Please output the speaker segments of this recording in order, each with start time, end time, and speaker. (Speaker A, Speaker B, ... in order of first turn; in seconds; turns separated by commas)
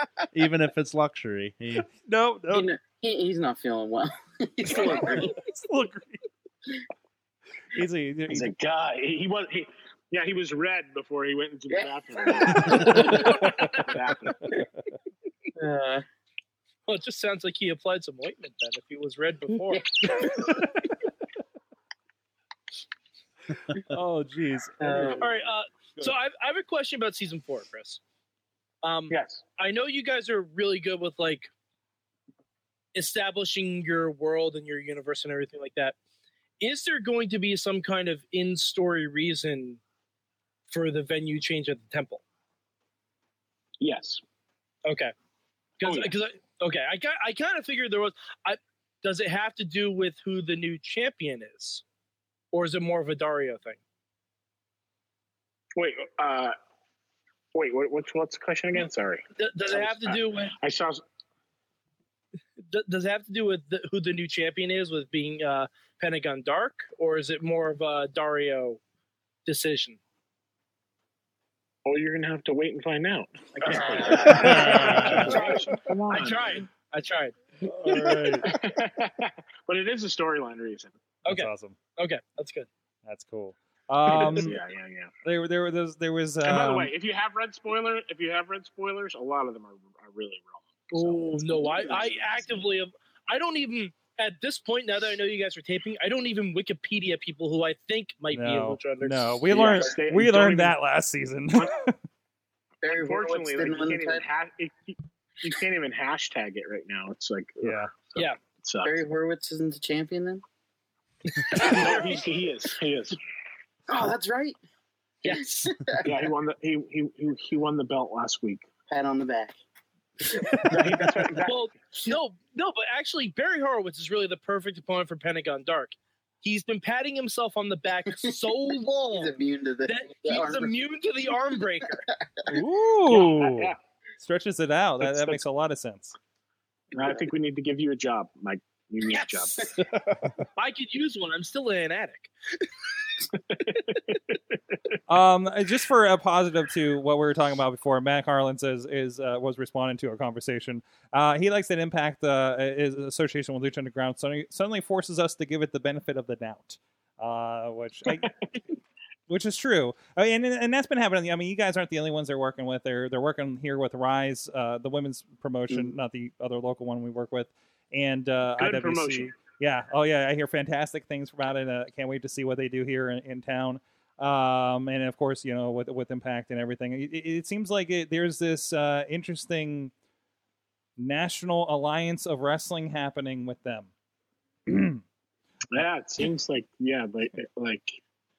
Speaker A: 0.3-1.9, Speaker B: 2.0-2.7, Speaker C: 2.5-5.3, Speaker B: 4.7-6.2, Speaker B: 7.7-8.5, Speaker D: 8.3-14.5, Speaker C: 11.7-13.5, Speaker B: 12.8-13.7, Speaker C: 15.6-16.0, Speaker E: 16.9-19.9, Speaker C: 19.7-20.6, Speaker B: 23.9-25.3, Speaker C: 24.8-25.3, Speaker E: 25.2-28.0, Speaker E: 28.8-31.5, Speaker D: 29.1-29.4, Speaker E: 32.9-35.9, Speaker E: 36.6-39.8, Speaker E: 40.7-42.2, Speaker D: 43.8-44.2, Speaker E: 44.8-45.1, Speaker E: 45.8-51.8, Speaker D: 45.8-46.1, Speaker E: 52.5-53.8, Speaker D: 55.8-56.5, Speaker D: 57.5-61.0, Speaker E: 59.4-60.5, Speaker E: 62.7-68.8, Speaker E: 69.5-70.0, Speaker D: 71.8-76.7, Speaker E: 73.7-77.3, Speaker C: 73.7-74.4, Speaker A: 74.2-75.4, Speaker B: 77.6-78.5, Speaker D: 77.8-81.0, Speaker B: 81.2-81.8, Speaker E: 81.2-82.7, Speaker B: 83.0-84.6, Speaker D: 84.1-85.1, Speaker E: 84.1-84.4, Speaker B: 85.2-86.9, Speaker D: 86.4-92.4, Speaker E: 90.9-99.5, Speaker C: 91.6-92.0, Speaker B: 98.3-102.0, Speaker D: 99.5-100.8, Speaker C: 102.8-104.2, Speaker D: 102.9-109.0, Speaker B: 107.6-107.9, Speaker C: 108.8-110.4, Speaker E: 111.3-112.2, Speaker D: 111.5-113.2, Speaker C: 111.6-111.9, Speaker C: 113.9-114.6, Speaker E: 115.2-115.7, Speaker C: 115.2-116.3, Speaker D: 116.0-118.7, Speaker C: 118.9-119.6, Speaker C: 120.2-121.1, Speaker D: 120.7-121.6, Speaker E: 121.4-132.0, Speaker C: 128.1-128.5, Speaker C: 129.1-130.8, Speaker B: 132.5-136.1, Speaker D: 133.1-133.8, Speaker D: 135.0-135.4, Speaker D: 136.9-139.8, Speaker E: 139.1-139.7, Speaker E: 140.6-142.7, Speaker D: 143.7-143.9, Speaker B: 145.1-158.3, Speaker B: 159.3-179.9, Speaker D: 168.6-169.3, Speaker B: 181.0-183.9, Speaker B: 184.7-185.0, Speaker D: 185.7-188.0